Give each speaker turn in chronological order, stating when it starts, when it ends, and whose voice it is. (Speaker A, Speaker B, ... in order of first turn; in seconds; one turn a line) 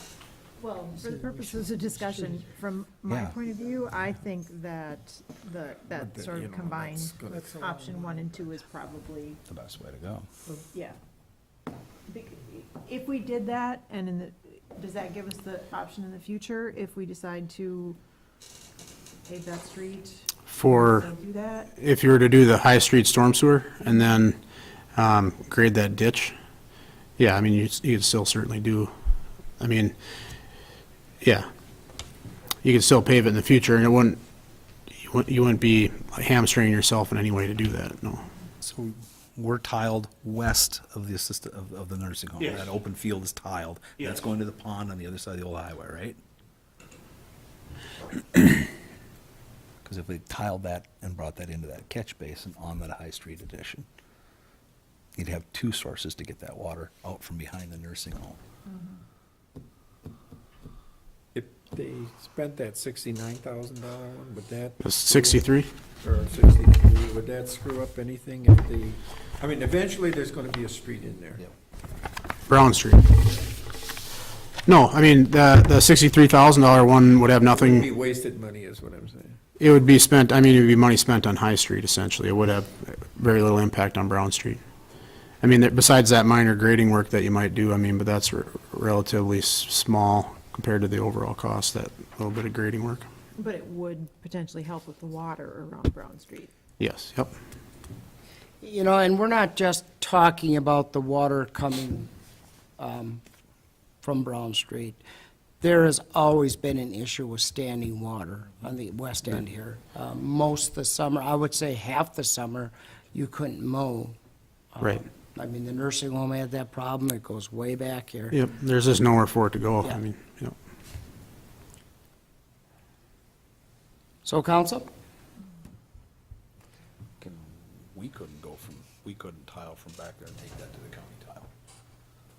Speaker A: 0.6-9.4
Speaker B: 3.1-3.3
Speaker C: 5.9-8.5
Speaker B: 9.5-10.3
Speaker A: 10.7-11.0
Speaker A: 12.1-18.0
Speaker A: 19.2-21.7
Speaker D: 20.4-21.1
Speaker D: 21.7-24.4
Speaker D: 24.9-26.4
Speaker D: 27.2-28.9
Speaker D: 29.6-29.9
Speaker D: 31.2-31.5
Speaker D: 32.6-34.2
Speaker D: 34.9-38.2
Speaker B: 38.6-46.2
Speaker B: 49.8-53.9
Speaker B: 55.1-58.4
Speaker C: 61.3-65.4
Speaker D: 64.8-65.7
Speaker C: 66.0-71.5
Speaker D: 72.5-73.2
Speaker D: 74.7-77.9
Speaker C: 77.5-79.4
Speaker D: 79.6-84.6
Speaker D: 85.4-93.1
Speaker A: 93.3-96.5
Speaker D: 96.8-97.3
Speaker E: 98.6-102.1
Speaker E: 102.8-103.2
Speaker E: 104.0-105.0
Speaker E: 105.6-114.2
Speaker E: 114.7-118.4
Speaker D: 118.3-120.5
Speaker E: 124.2-124.9
Speaker B: 127.2-131.5